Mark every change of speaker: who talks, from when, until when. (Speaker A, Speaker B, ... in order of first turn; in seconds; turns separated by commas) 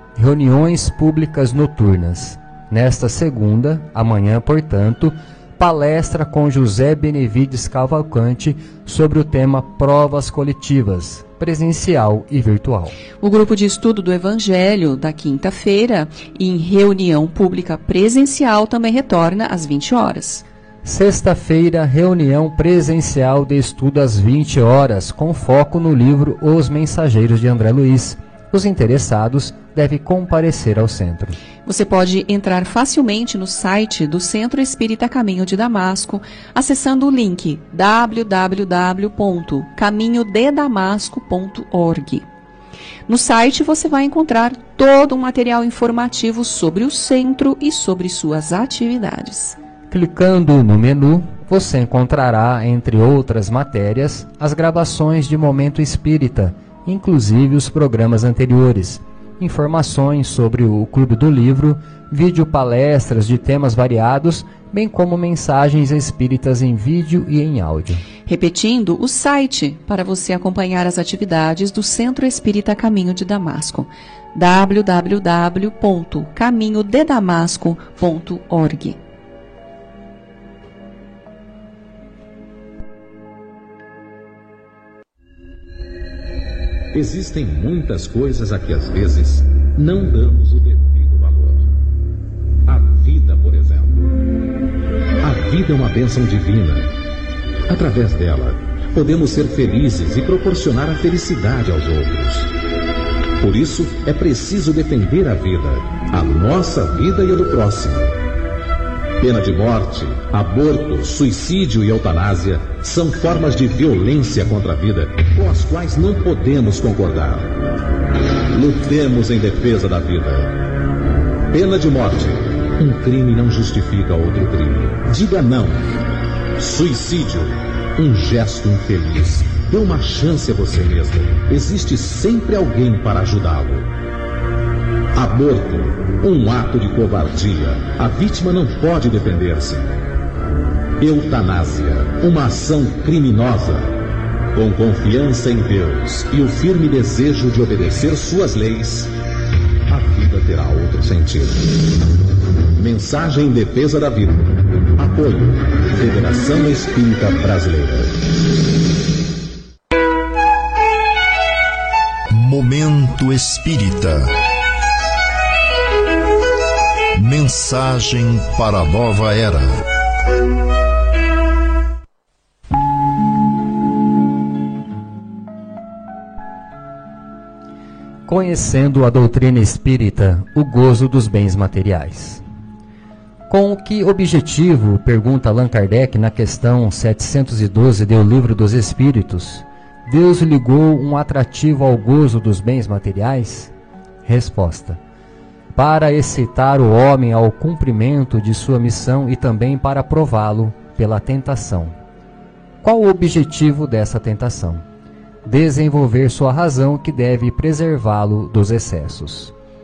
Speaker A: 0.1-13.0, Speaker B: 13.2-20.4, Speaker A: 20.8-31.4, Speaker B: 31.6-42.2, Speaker B: 43.1-49.6, Speaker A: 49.9-68.0, Speaker B: 68.2-79.0, Speaker C: 86.9-91.7, Speaker C: 92.7-94.2, Speaker C: 95.2-96.9, Speaker C: 97.7-102.5, Speaker C: 103.4-108.2, Speaker C: 109.2-117.5, Speaker C: 118.5-120.6, Speaker C: 121.5-126.0, Speaker C: 126.6-133.9, Speaker C: 135.1-139.9, Speaker C: 141.0-144.0, Speaker C: 144.5-149.1, Speaker C: 149.9-152.0, Speaker C: 152.7-158.1, Speaker D: 162.3-164.3, Speaker D: 167.2-169.8, Speaker A: 178.3-182.4, Speaker A: 183.5-193.7, Speaker A: 194.2-195.0, Speaker A: 195.7-201.9, Speaker A: 202.8-204.8, Speaker A: 205.4-209.5